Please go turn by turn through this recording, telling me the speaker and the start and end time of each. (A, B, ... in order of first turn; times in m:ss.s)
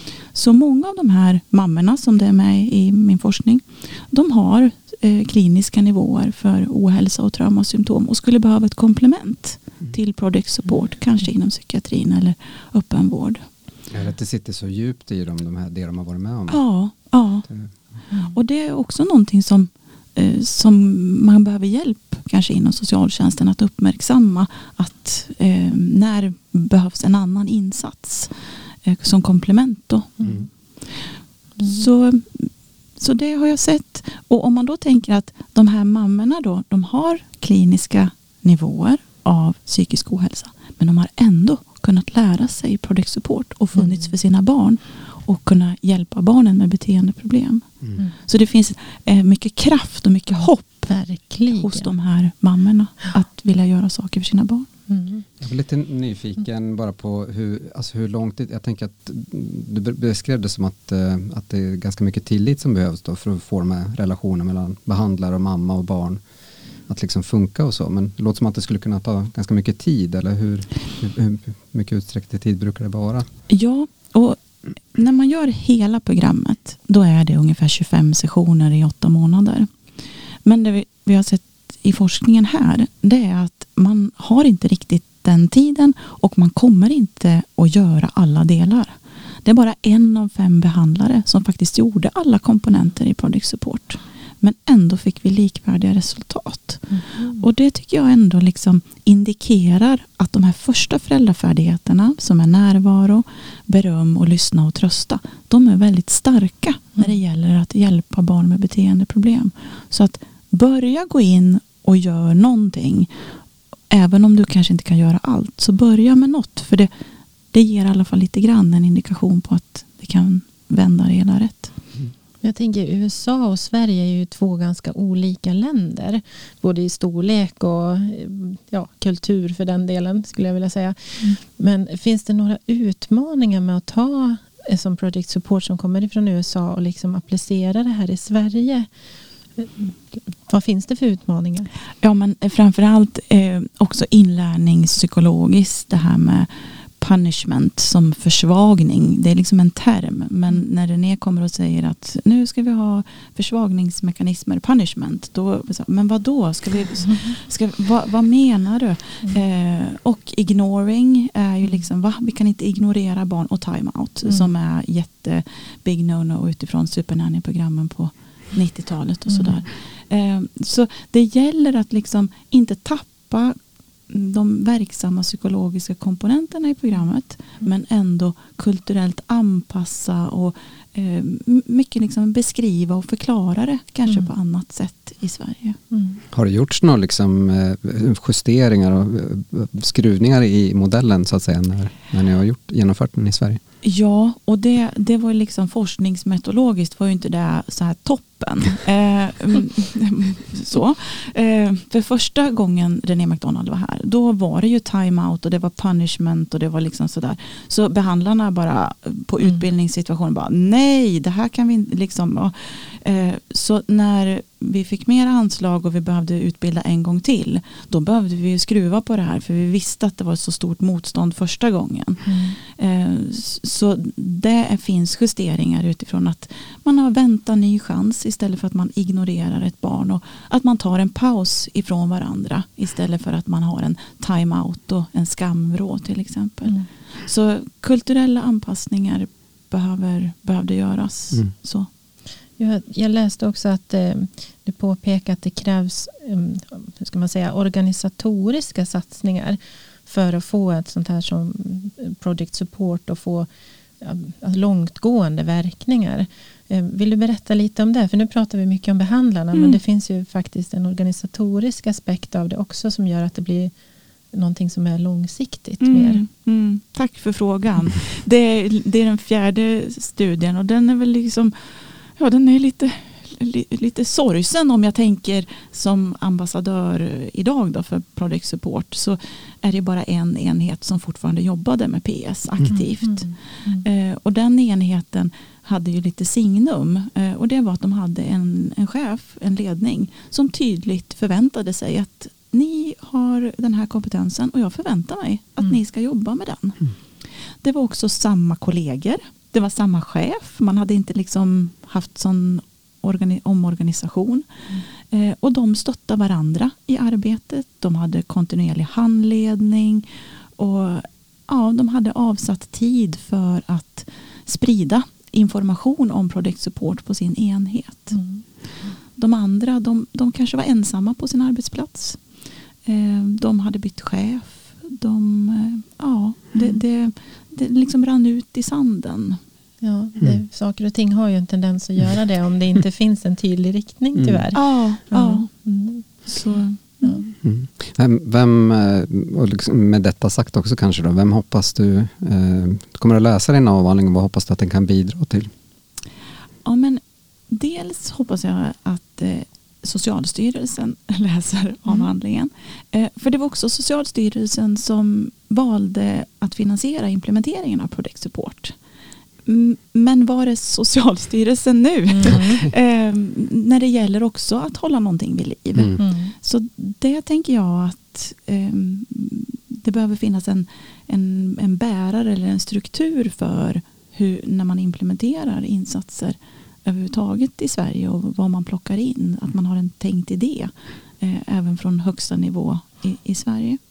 0:00.3-0:13.4 A
0:13.9-0:16.6 B
0:16.5-0:17.5 A
0:18.3-0:28.3 A
0:28.8-0:30.2 A
0:30.2-0:30.4 C
0:31.6-0:47.6 A
0:48.2-0:50.9 A
0:50.9-0:51.9 C
0:51.5-0:54.7 A
0:54.9-0:55.2 C
0:55.4-1:06.2 B
1:06.9-1:13.3 B
1:13.5-1:14.4 A
1:14.9-1:19.7 A
1:20.4-1:53.1 A
1:36.9-1:37.4 C
1:53.9-1:56.9 A
1:57.5-2:01.7 A
2:02.4-2:18.9 C
2:19.6-2:21.7 C
2:22.0-2:26.5 A
2:27.0-2:53.5 A
2:54.1-3:05.8 A
3:05.9-3:06.2 C
3:06.3-3:13.6 B
3:13.8-4:01.9 A
3:42.2-3:42.5 C
4:02.6-4:13.5 C
4:14.0-4:23.7 C
4:19.5-4:19.8 A
4:24.3-4:26.2 C
4:25.8-4:31.5 A
4:32.2-4:56.8 A
4:42.7-4:43.8 C
4:57.6-5:04.4 A
5:05.1-5:10.0 A
5:10.6-5:18.2 A
5:18.1-5:18.4 C
5:19.2-5:22.2 A
5:22.8-5:29.4 A
5:29.8-5:37.2 C
5:34.2-5:34.4 B
5:34.5-5:35.5 A
5:36.2-5:37.3 A
5:37.4-5:45.5 B
5:46.6-5:58.7 A
5:59.4-6:23.8 A
6:02.1-6:02.6 C
6:06.0-6:06.3 C